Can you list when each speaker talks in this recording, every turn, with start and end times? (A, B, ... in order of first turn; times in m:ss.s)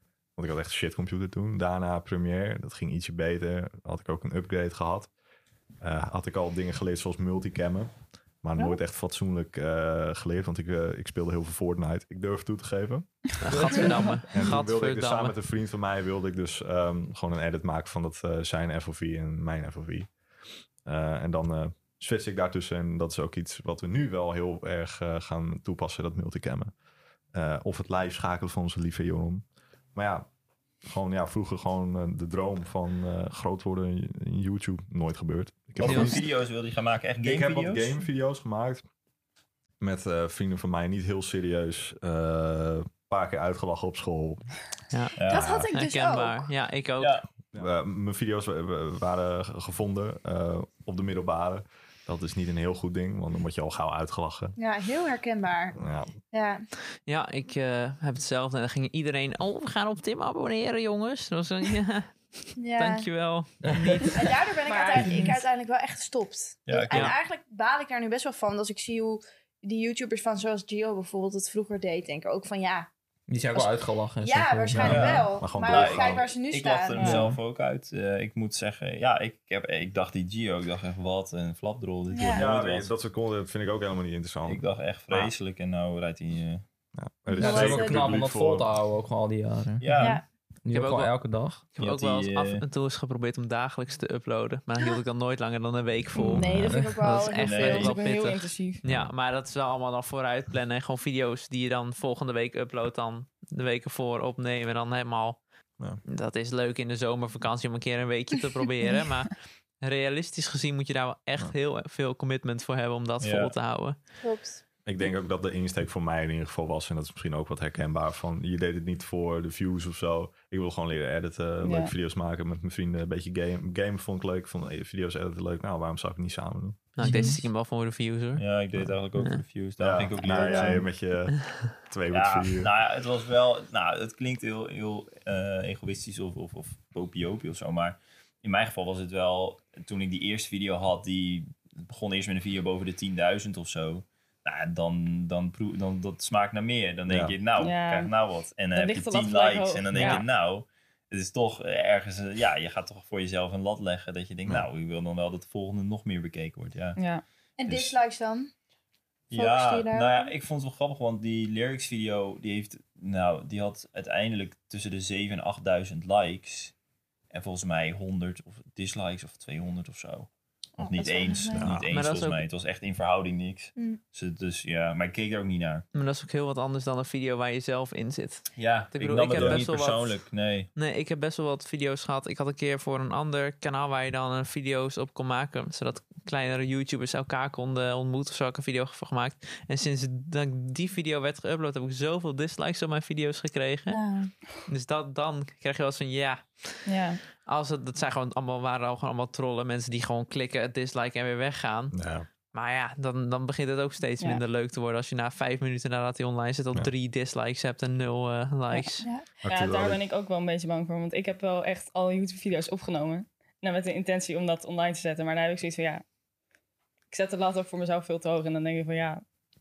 0:00.4-0:05.1 A
0:05.8-0:20.2 A
0:13.4-0:15.4 B
0:13.9-0:14.2 C
0:20.8-0:26.8 A
0:27.3-0:30.3 A
0:30.8-0:36.3 A
0:35.8-0:37.9 D
0:35.8-0:36.2 B
0:37.2-0:38.9 A
0:39.8-0:44.6 A
0:44.9-0:45.2 B
0:45.2-0:45.6 D
0:45.2-0:46.5 E
0:45.3-0:45.7 A
0:45.7-0:47.2 B
0:47.0-0:47.4 D
0:47.5-0:54.6 A
0:54.6-0:56.6 E
0:55.8-0:56.1 A
0:57.1-1:04.4 B
1:02.6-1:03.1 E
1:04.1-1:12.9 E
1:04.7-1:05.4 C
1:06.6-1:07.2 D
1:13.3-1:15.3 F
1:14.2-1:17.2 E
1:14.7-1:22.9 D
1:14.8-1:16.3 A
1:17.0-1:17.3 C
1:22.1-1:22.5 E
1:22.3-1:25.3 A
1:24.5-1:26.6 D
1:27.0-1:28.7 A
1:27.3-1:28.2 E
1:27.4-1:31.6 F
1:29.8-1:30.2 D
1:30.0-1:30.2 E
1:30.7-1:45.4 B
1:31.8-1:32.6 D
1:36.2-1:38.0 E
1:36.3-1:36.6 A
1:36.7-1:37.0 F
1:37.3-1:38.0 D
1:37.7-1:38.8 C
1:38.9-1:39.1 A
1:46.0-1:54.2 B
1:53.2-1:53.6 D
1:54.2-1:54.6 E
1:54.8-2:06.9 A
2:01.6-2:01.9 C
2:07.0-2:08.6 B
2:07.0-2:07.4 F
2:07.0-2:07.4 E
2:08.4-2:10.9 D
2:09.8-2:12.7 A
2:12.1-2:37.0 D
2:27.1-2:27.4 A
2:27.6-2:28.1 C
2:28.7-2:30.3 C
2:29.9-2:30.2 F
2:29.9-2:30.2 B
2:37.0-2:37.2 C
2:37.6-2:38.5 E
2:37.6-2:38.0 D
2:39.3-2:46.8 D
2:39.3-2:40.3 E
2:47.3-2:55.8 D
2:50.8-2:51.8 E
2:51.6-2:51.9 A
2:51.9-2:52.4 B
2:55.9-3:29.1 B
2:58.6-3:00.7 D
2:59.4-2:59.6 A
3:13.9-3:14.3 E
3:16.9-3:17.2 C
3:21.9-3:22.3 A
3:28.7-3:36.0 C
3:29.0-3:29.4 E
3:29.4-3:30.0 A
3:37.1-3:39.2 C